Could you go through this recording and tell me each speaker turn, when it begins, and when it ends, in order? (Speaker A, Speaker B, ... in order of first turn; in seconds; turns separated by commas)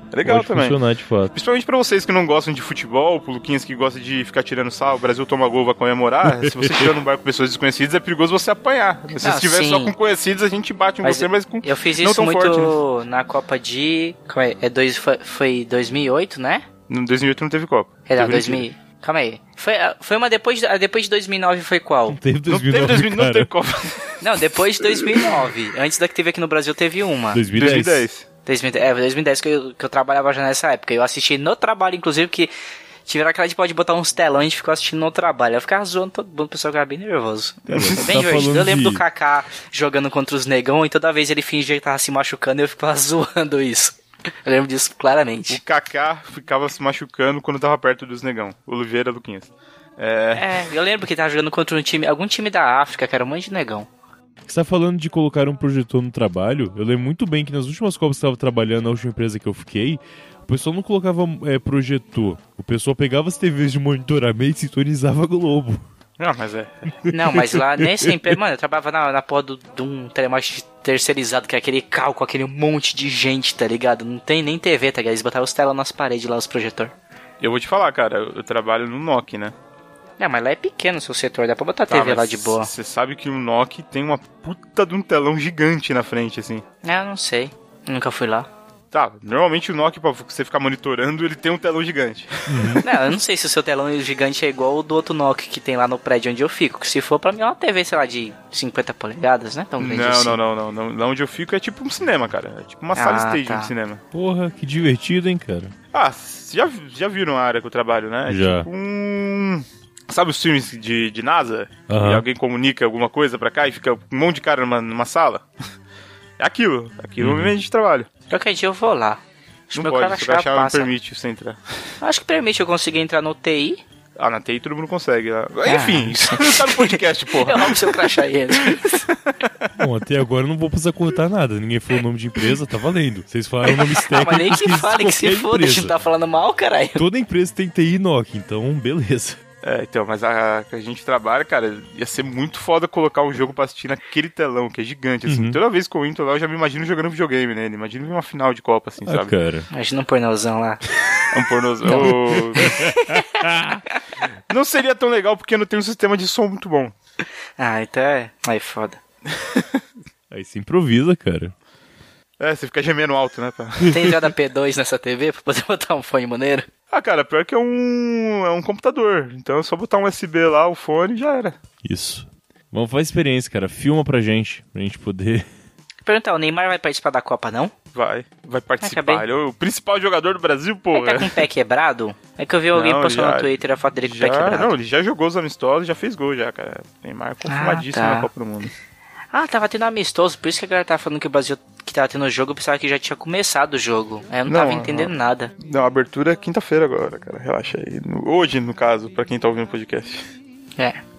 Speaker A: 0.1-0.8, Speaker B: 0.2-1.3, Speaker A: 1.3-12.8, Speaker B: 6.2-6.9, Speaker C: 9.2-9.9, Speaker C: 11.0-16.7, Speaker A: 16.9-18.6, Speaker C: 18.1-22.2, Speaker B: 22.1-23.5, Speaker A: 22.5-25.3, Speaker C: 24.2-27.4, Speaker B: 27.3-28.1, Speaker A: 27.6-28.3, Speaker C: 28.4-32.5, Speaker C: 33.1-45.6, Speaker B: 37.7-39.0, Speaker A: 37.7-38.0, Speaker A: 45.5-50.6, Speaker C: 50.3-53.9, Speaker B: 54.5-65.8, Speaker A: 66.2-66.9, Speaker B: 67.1-68.4, Speaker C: 67.1-76.9, Speaker A: 77.4-79.5, Speaker C: 80.2-82.7, Speaker A: 81.9-86.6, Speaker C: 86.8-88.5, Speaker A: 88.9-93.0, Speaker B: 92.5-92.8, Speaker C: 92.8-100.4, Speaker A: 99.8-104.0, Speaker C: 103.0-103.7, Speaker B: 104.1-105.7, Speaker A: 105.9-115.5, Speaker B: 108.3-108.7, Speaker B: 111.9-112.2, Speaker A: 116.4-118.1, Speaker B: 117.2-117.5, Speaker C: 118.3-120.9, Speaker A: 119.7-121.6, Speaker C: 122.0-123.8, Speaker A: 124.2-128.1, Speaker C: 125.7-129.1, Speaker A: 128.7-129.7, Speaker B: 129.8-135.9, Speaker C: 133.7-137.0, Speaker B: 137.0-139.4, Speaker A: 139.6-149.3, Speaker B: 145.3-145.6, Speaker B: 149.1-149.7, Speaker C: 149.7-150.8, Speaker A: 151.3-152.8, Speaker C: 151.8-153.2, Speaker B: 151.9-153.8, Speaker A: 154.5-156.9, Speaker C: 157.6-159.0, Speaker A: 159.4-159.8, Speaker B: 160.3-161.5, Speaker A: 162.4-164.2, Speaker C: 163.9-166.7, Speaker A: 166.9-171.6, Speaker B: 171.8-175.5, Speaker C: 176.1-177.7, Speaker A: 177.9-181.4, Speaker C: 178.8-179.2, Speaker C: 180.9-184.7, Speaker A: 182.7-188.7, Speaker C: 187.5-188.3, Speaker C: 189.3-195.5, Speaker A: 194.5-200.2